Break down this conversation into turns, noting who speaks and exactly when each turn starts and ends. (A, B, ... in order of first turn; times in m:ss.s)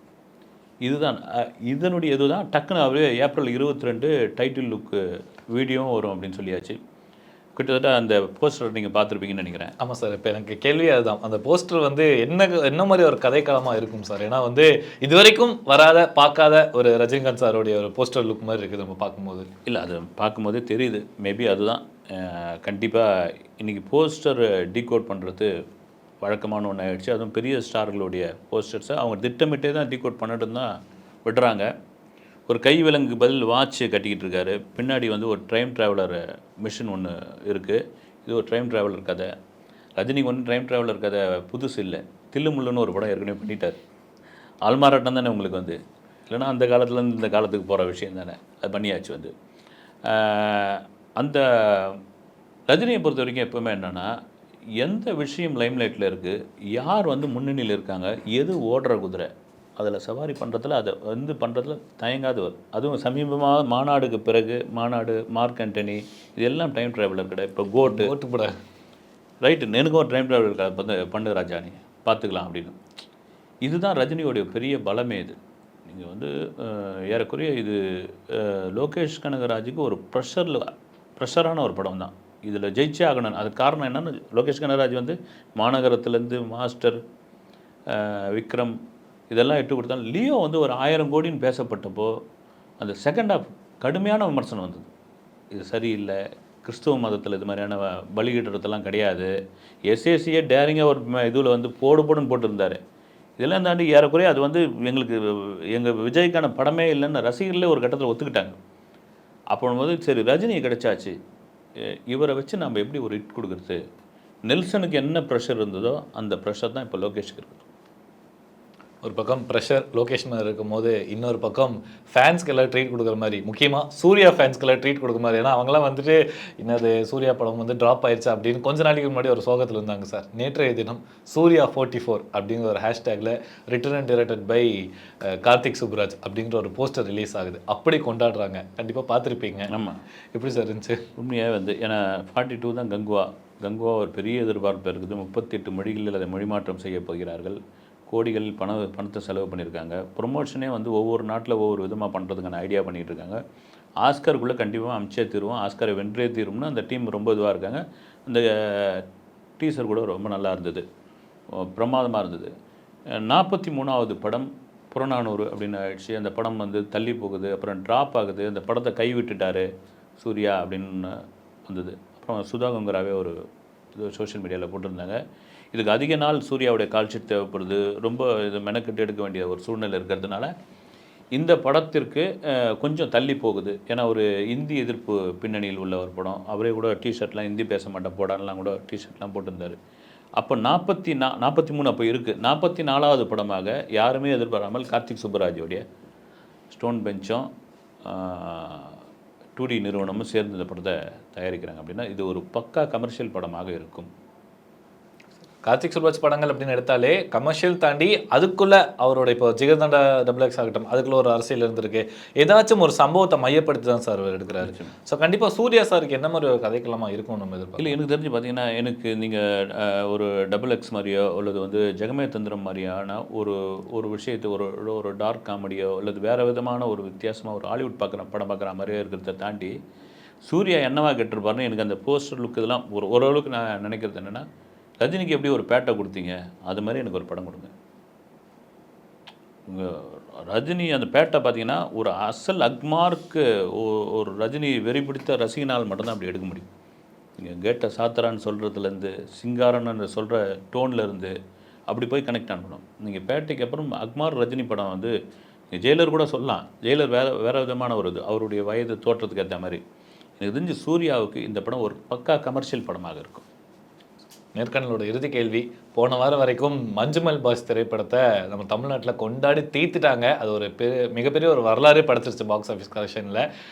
0:00.8-0:05.0 A
0:05.5-0:06.8 A
0:07.6-0:09.7 A
0:09.8-0:19.5 B
0:19.7-0:25.5 A
0:26.2-0:30.7 A
0:31.2-0:31.7 A
0:32.5-0:39.3 A
0:40.0-0:43.8 A
0:44.7-0:45.8 A
0:46.3-0:49.3 A
0:50.1-0:52.0 A
0:52.7-0:54.1 A
0:54.8-1:08.1 A
1:07.8-1:08.5 B
1:09.4-1:12.8 A
1:13.6-1:20.6 A
1:21.2-1:27.0 A
1:27.9-1:28.8 A
1:29.3-1:32.2 A
1:32.8-1:34.9 A
1:35.5-1:39.3 A
1:39.9-1:42.8 A
1:43.4-1:48.6 A
1:49.5-1:51.2 A
1:52.1-1:53.8 A
1:54.5-1:57.6 A
1:59.0-2:19.7 B
2:19.7-2:20.0 A
2:20.3-2:21.0 B
2:21.2-2:33.4 A
2:34.0-2:39.1 A
2:39.6-2:40.8 A
2:41.6-2:42.5 A
2:43.2-2:53.4 A
2:54.0-2:55.2 A
2:55.7-3:00.5 A
3:01.4-3:09.8 A
3:10.4-3:15.8 A
3:16.7-3:17.5 A
3:18.0-3:19.0 A
3:19.6-3:24.1 A
3:25.7-3:38.0 B
3:34.6-3:34.9 A
3:37.8-3:49.8 A
3:50.4-3:54.4 A
3:55.0-3:57.7 A
3:59.7-4:06.7 A
4:07.4-4:11.3 A
4:11.9-4:15.1 A
4:15.7-4:19.8 A
4:20.4-4:23.4 A
4:24.6-4:33.4 B